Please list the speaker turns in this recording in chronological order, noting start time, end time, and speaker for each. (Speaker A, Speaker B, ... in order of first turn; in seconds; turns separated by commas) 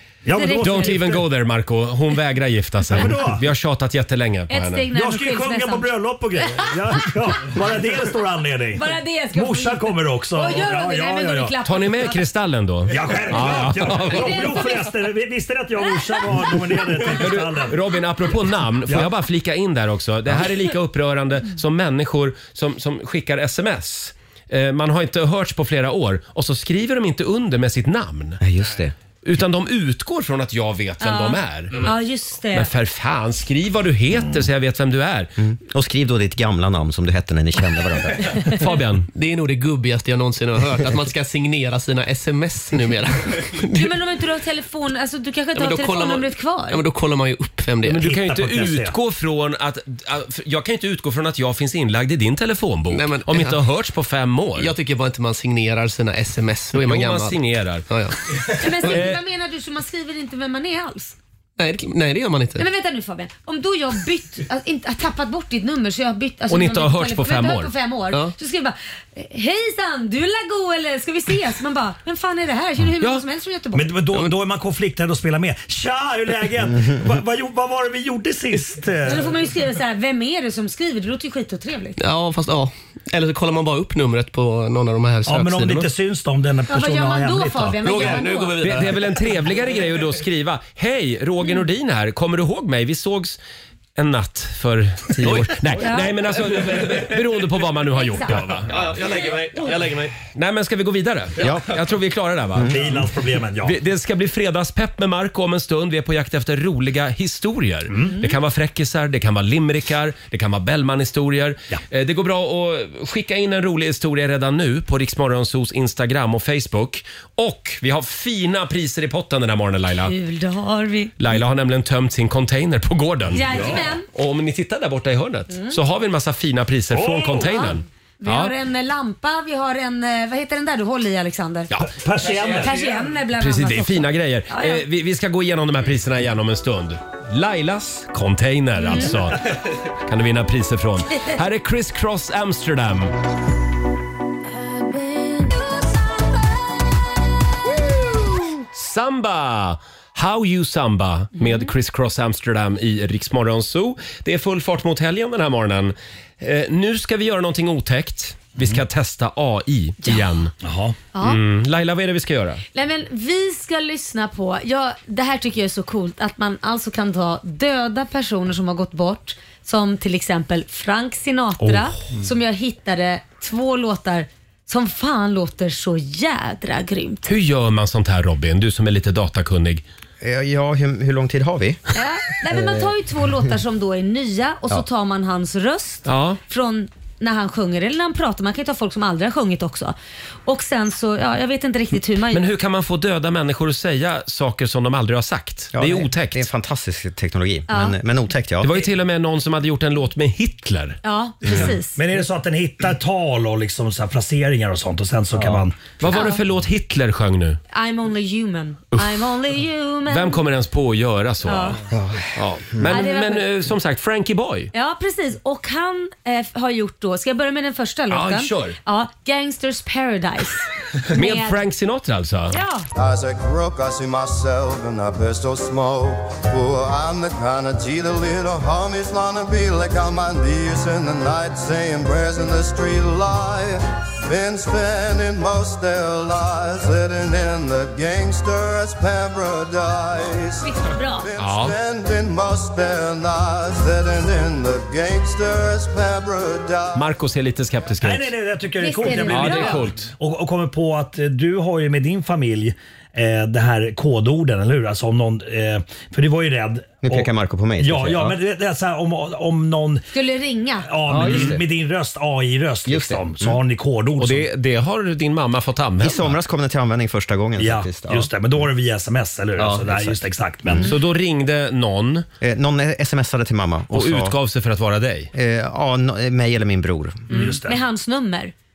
Speaker A: 0.2-1.3, Speaker B: 0.3-1.0, Speaker C: 0.6-4.9, Speaker A: 2.9-3.4, Speaker B: 4.5-5.9, Speaker A: 4.9-11.6, Speaker B: 8.8-12.2, Speaker C: 11.6-14.6, Speaker A: 12.9-17.8, Speaker B: 14.1-14.9, Speaker B: 16.1-16.6, Speaker C: 17.1-28.4, Speaker D: 28.4-28.9, Speaker C: 29.2-32.0, Speaker B: 31.0-32.7, Speaker C: 32.5-35.3, Speaker D: 35.4-38.3, Speaker C: 38.5-39.1, Speaker E: 39.1-43.9, Speaker B: 43.8-46.8, Speaker E: 45.5-48.1, Speaker C: 47.8-54.7, Speaker A: 48.0-49.0, Speaker E: 52.9-53.6, Speaker E: 54.6-57.4, Speaker C: 56.8-57.9, Speaker E: 57.9-59.0, Speaker B: 58.6-61.2, Speaker C: 58.8-59.2, Speaker E: 61.6-62.6, Speaker B: 62.6-73.9, Speaker C: 66.5-67.7, Speaker A: 73.7-79.3, Speaker B: 79.1-82.0, Speaker E: 82.0-85.9, Speaker A: 85.3-88.2, Speaker B: 86.7-88.6, Speaker E: 87.8-89.5, Speaker C: 88.6-93.4, Speaker C: 94.0-98.9, Speaker E: 95.2-95.6, Speaker B: 95.8-96.1, Speaker E: 96.6-97.1, Speaker B: 98.0-98.5, Speaker E: 98.7-100.2, Speaker C: 100.3-102.8, Speaker D: 101.4-101.7, Speaker D: 102.6-102.8, Speaker A: 102.6-103.8, Speaker C: 103.6-120.1, Speaker A: 107.9-108.2, Speaker B: 120.0-121.2, Speaker C: 121.2-128.5, Speaker B: 123.3-124.1, Speaker A: 123.4-123.8, Speaker B: 125.5-125.8, Speaker A: 126.9-127.7, Speaker B: 127.4-131.7, Speaker A: 131.9-132.8, Speaker B: 132.5-134.8, Speaker C: 133.4-139.5, Speaker B: 138.8-139.3, Speaker C: 140.1-143.1, Speaker B: 144.8-145.5, Speaker C: 148.7-160.5, Speaker B: 151.4-151.7, Speaker A: 160.6-161.0, Speaker B: 161.1-161.4, Speaker C: 161.2-162.6, Speaker B: 162.7-177.2, Speaker C: 177.2-179.8, Speaker D: 180.2-181.8, Speaker B: 181.9-189.9, Speaker D: 182.6-182.9, Speaker C: 186.1-186.4, Speaker B: 190.5-192.5, Speaker C: 192.3-196.5, Speaker D: 195.7-198.8, Speaker B: 197.7-197.9, Speaker C: 198.6-201.7, Speaker B: 201.0-202.0, Speaker D: 201.4-201.7, Speaker A: 202.0-205.9, Speaker C: 206.0-207.6, Speaker B: 206.1-206.4, Speaker B: 207.7-210.4, Speaker C: 210.1-211.8, Speaker B: 211.5-211.8, Speaker D: 211.9-213.0, Speaker C: 212.3-214.7, Speaker B: 212.9-213.5, Speaker B: 214.7-221.6, Speaker C: 218.1-218.8, Speaker C: 221.1-222.6, Speaker B: 222.5-222.9, Speaker F: 222.9-247.1, Speaker B: 240.6-241.3, Speaker C: 241.4-241.8, Speaker C: 246.9-248.3, Speaker A: 248.0-257.3, Speaker B: 248.8-249.8, Speaker C: 249.3-250.1, Speaker D: 257.0-258.4, Speaker A: 257.8-260.1, Speaker B: 260.1-260.9, Speaker A: 260.9-264.5, Speaker D: 261.1-261.6, Speaker C: 261.2-261.6, Speaker D: 262.9-263.6, Speaker C: 264.2-266.4, Speaker D: 266.0-268.3, Speaker A: 267.6-270.9, Speaker D: 269.6-270.9, Speaker C: 270.9-272.3, Speaker D: 272.4-274.3, Speaker C: 273.9-275.3, Speaker D: 275.3-277.5, Speaker B: 277.3-278.5, Speaker A: 277.3-277.8